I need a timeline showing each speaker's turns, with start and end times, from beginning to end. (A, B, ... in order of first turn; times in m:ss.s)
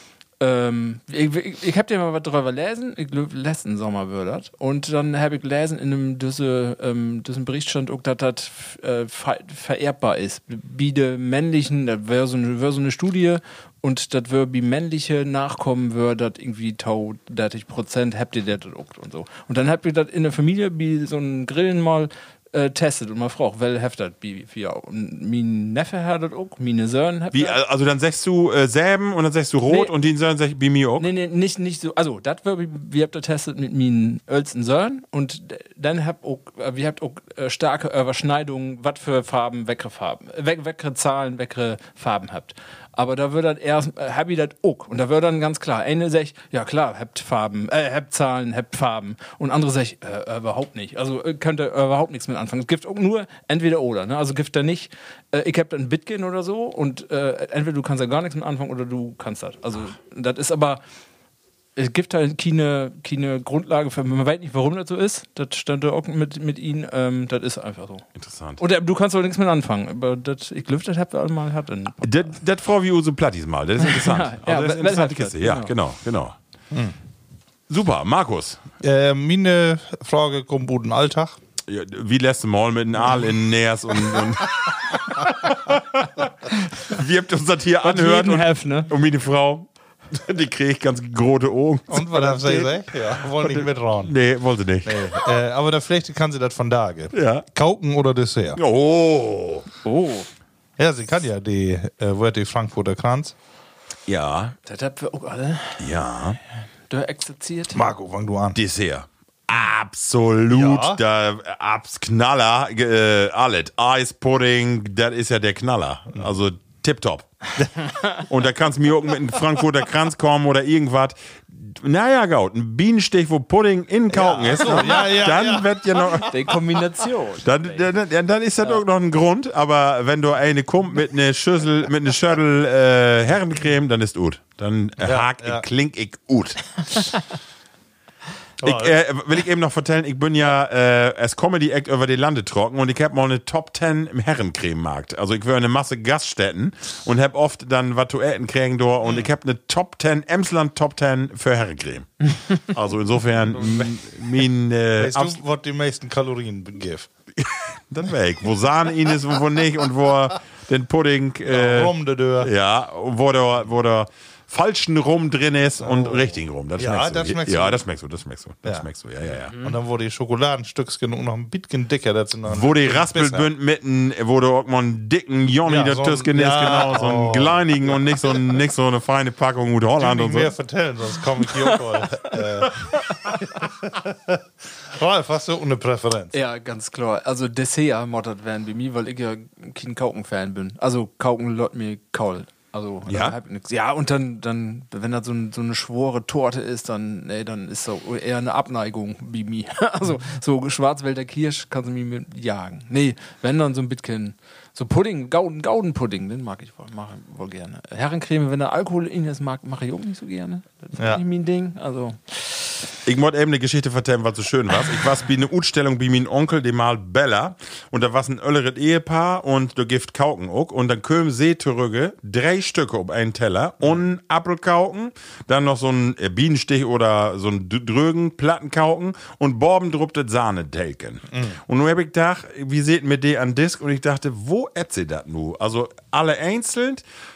0:00.4-0:27.6 A
0:27.3-0:31.1 B
0:31.0-1:00.8 A
1:01.8-1:08.0 A
1:08.2-1:08.6 B
1:08.6-1:12.3 A
1:12.0-1:16.4 B
1:13.8-1:15.7 A
1:17.7-1:18.6 B
1:18.8-1:21.4 C
1:21.7-1:35.2 B
1:27.8-1:28.9 A
1:31.9-1:34.2 C
1:34.8-1:38.6 C
1:37.1-1:37.4 B
1:38.6-1:39.7 B
1:39.8-1:40.3 A
1:40.8-1:43.3 C
1:44.1-1:44.6 B
1:44.7-1:45.9 A
1:45.8-1:46.4 B
1:46.9-1:47.9 A
1:47.7-1:48.6 C
1:48.6-1:57.5 B
1:50.5-1:51.0 C
1:58.2-2:06.5 B
2:04.1-2:06.0 C
2:04.6-2:05.0 A
2:06.2-2:07.9 A
2:07.4-2:17.0 B
2:15.0-2:15.6 C
2:18.6-2:19.0 C
2:18.6-2:35.4 B
2:29.0-2:29.3 C
2:33.5-2:34.4 C
2:35.0-2:37.1 C
2:37.4-2:49.5 B
2:41.4-2:42.5 C
2:45.8-2:47.8 C
2:49.5-2:49.8 A
2:49.6-2:53.5 C
2:52.5-3:00.5 B
2:55.6-2:58.3 C
3:00.0-3:06.4 C
3:06.3-3:32.8 A
3:13.1-3:13.4 B
3:31.0-3:31.2 C
3:33.0-3:57.0 B
3:51.3-3:51.6 C